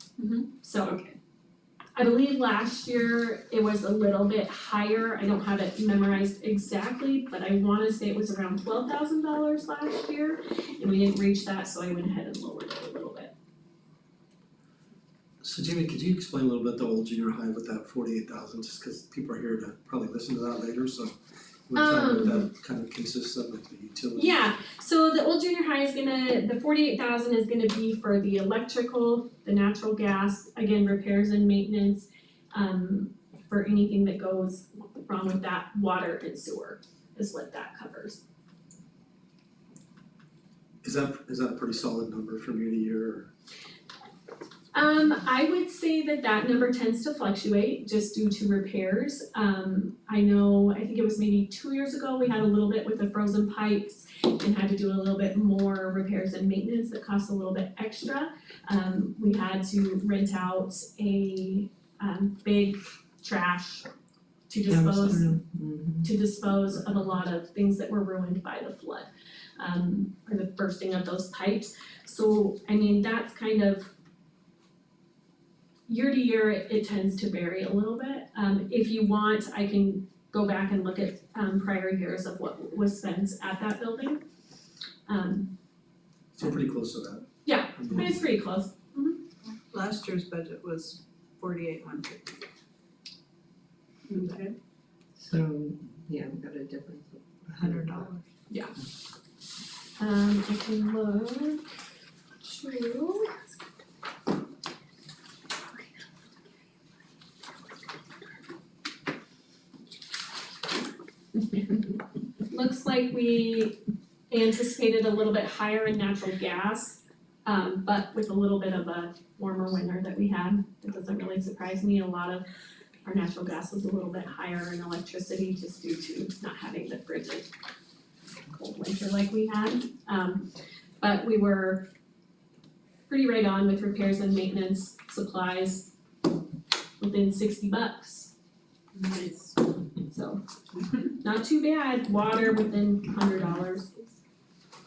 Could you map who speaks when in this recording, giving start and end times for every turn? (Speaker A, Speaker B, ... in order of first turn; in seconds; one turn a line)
Speaker A: 0.5-1.0
Speaker A: 2.0-13.3
Speaker B: 15.4-21.1
Speaker B: 21.7-24.4
Speaker A: 21.7-22.5
Speaker A: 24.1-38.2
Speaker B: 40.8-43.3
Speaker A: 44.7-63.9
Speaker A: 64.5-65.3
Speaker C: 64.7-66.1
Speaker A: 66.0-73.9
Speaker A: 75.9-84.2
Speaker A: 85.1-85.5
Speaker B: 86.3-87.2
Speaker A: 87.5-89.2
Speaker B: 87.8-88.1
Speaker D: 89.4-92.4
Speaker D: 94.1-94.5
Speaker C: 95.2-98.1
Speaker D: 97.6-98.2
Speaker A: 98.5-98.8
Speaker A: 100.0-101.7
Speaker A: 102.4-103.5
Speaker A: 112.5-113.8
Speaker A: 114.3-122.5
Speaker A: 123.0-127.5
Speaker A: 128.5-130.5
Speaker A: 131.0-131.9
Speaker A: 133.1-135.9
Speaker A: 137.0-138.3
Speaker A: 140.1-140.4
Speaker A: 141.0-144.2